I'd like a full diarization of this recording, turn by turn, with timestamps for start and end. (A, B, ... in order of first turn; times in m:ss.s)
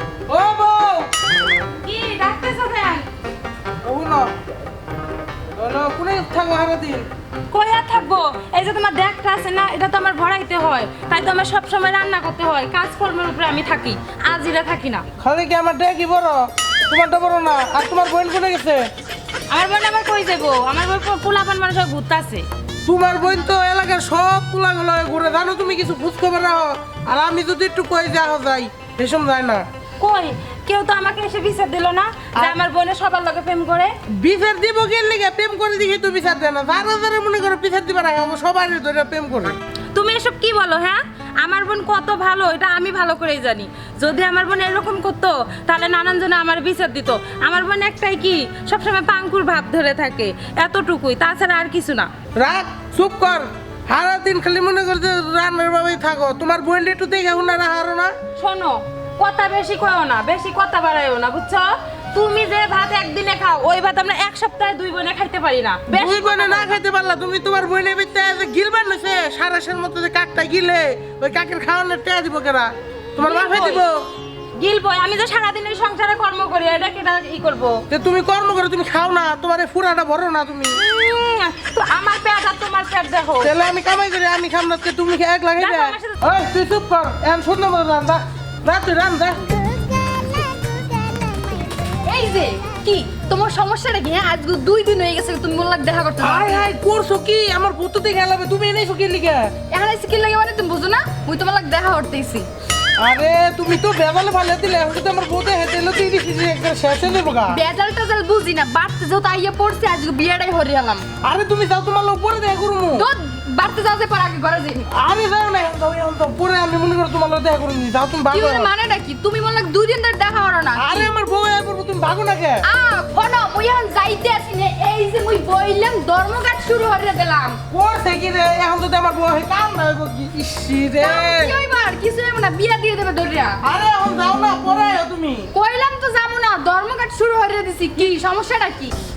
0:00.3-0:01.1 A
0:01.8-0:03.0 B
0:03.8-0:04.3 A
0:05.6-0:07.0 A
0:07.5-0:15.0 B
0:15.2-0:18.8 A
0:19.5-0:22.4 B
0:22.8-0:29.7 A
0:30.0-0:33.9 B
0:34.1-0:39.6 A
0:39.9-0:52.1 B
0:52.4-0:58.1 A
0:58.4-1:06.8 B
1:05.9-1:14.1 A
1:13.2-1:13.9 B
1:14.6-1:17.8 B
1:17.9-1:20.8 A
1:20.7-1:23.5 B
1:23.4-1:29.5 A
1:25.6-1:26.2 B
1:32.0-1:36.7 C
1:36.2-1:39.5 A
1:39.7-1:42.5 C
1:43.0-1:47.6 A
1:47.5-1:51.1 C
1:51.2-1:53.1 A
1:53.0-1:54.9 C
1:54.9-1:58.7 A
1:58.3-2:01.1 C
2:00.8-2:02.6 A
2:02.6-2:07.6 C
2:07.7-2:11.5 A
2:11.0-2:13.6 C
2:13.6-2:15.5 A
2:15.5-2:19.0 C